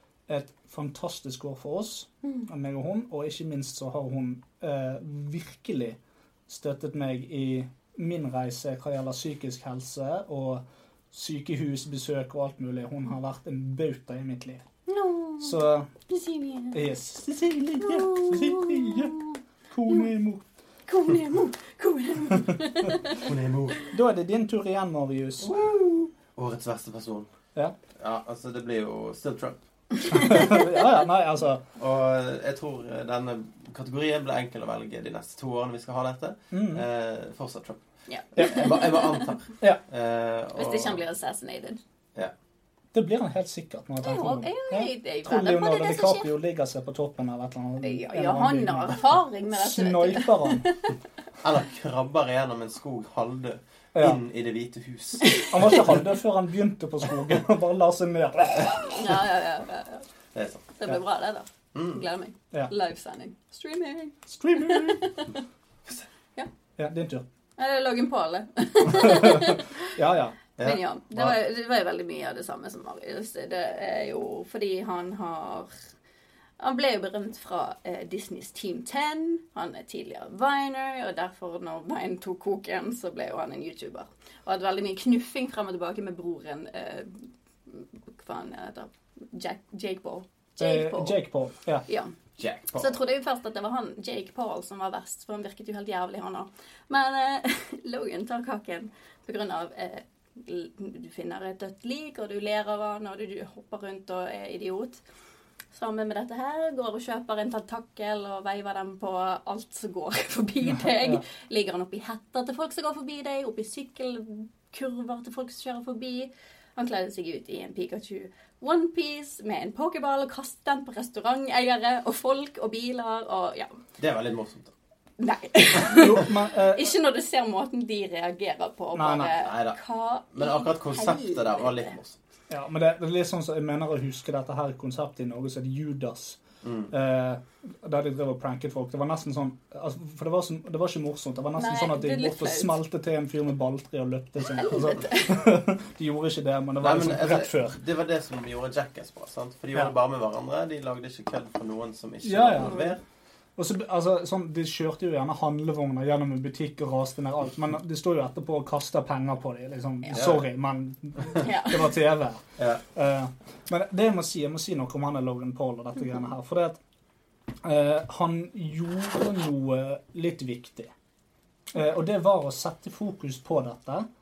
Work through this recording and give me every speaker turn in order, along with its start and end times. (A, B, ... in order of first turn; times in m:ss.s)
0:00.3-0:14.6 A
0:14.9-0:16.8 B
0:15.4-0:15.9 A
0:16.7-0:19.2 A
0:17.8-0:19.4 B
0:19.7-0:20.5 A
0:20.9-0:23.3 B
0:23.2-0:23.9 C
0:23.9-0:25.5 A
0:25.4-0:27.3 C
0:28.0-0:29.6 C
0:30.0-0:30.8 B
0:30.1-0:31.6 A
0:31.8-0:37.8 C
0:36.5-0:36.8 A
0:38.1-0:39.3 B
0:38.4-0:41.0 C
0:38.4-0:38.7 A
0:40.6-0:41.8 B
0:42.9-0:50.6 A
0:44.0-0:46.3 B
0:47.8-0:51.0 B
0:51.4-0:56.0 C
0:55.3-0:59.0 A
0:58.6-1:00.1 B
1:00.4-1:00.7 C
1:00.8-1:05.4 B
1:01.7-1:02.0 C
1:04.3-1:05.1 A
1:06.8-1:07.3 A
1:07.6-1:10.0 B
1:08.9-1:10.4 A
1:10.6-1:11.4 C
1:10.6-1:15.7 B
1:16.6-1:31.2 B
1:30.6-1:31.9 A
1:31.9-1:32.1 B
1:32.4-1:33.0 C
1:32.8-1:45.0 B
1:45.7-2:03.8 B
1:50.7-1:51.2 A
2:04.0-2:04.7 C
2:05.2-2:12.0 B
2:05.9-2:06.9 A
2:09.0-2:09.3 A
2:09.4-2:09.8 C
2:10.3-2:12.2 C
2:12.5-2:27.8 A
2:16.6-2:16.9 C
2:21.6-2:22.8 B
2:24.5-2:25.4 B
2:26.8-2:33.0 C
2:32.2-2:32.9 A
2:32.6-2:32.9 B
2:33.6-2:46.8 A
2:40.1-2:40.4 C
2:41.4-2:41.9 B
2:47.6-2:50.9 A
2:51.7-2:54.1 A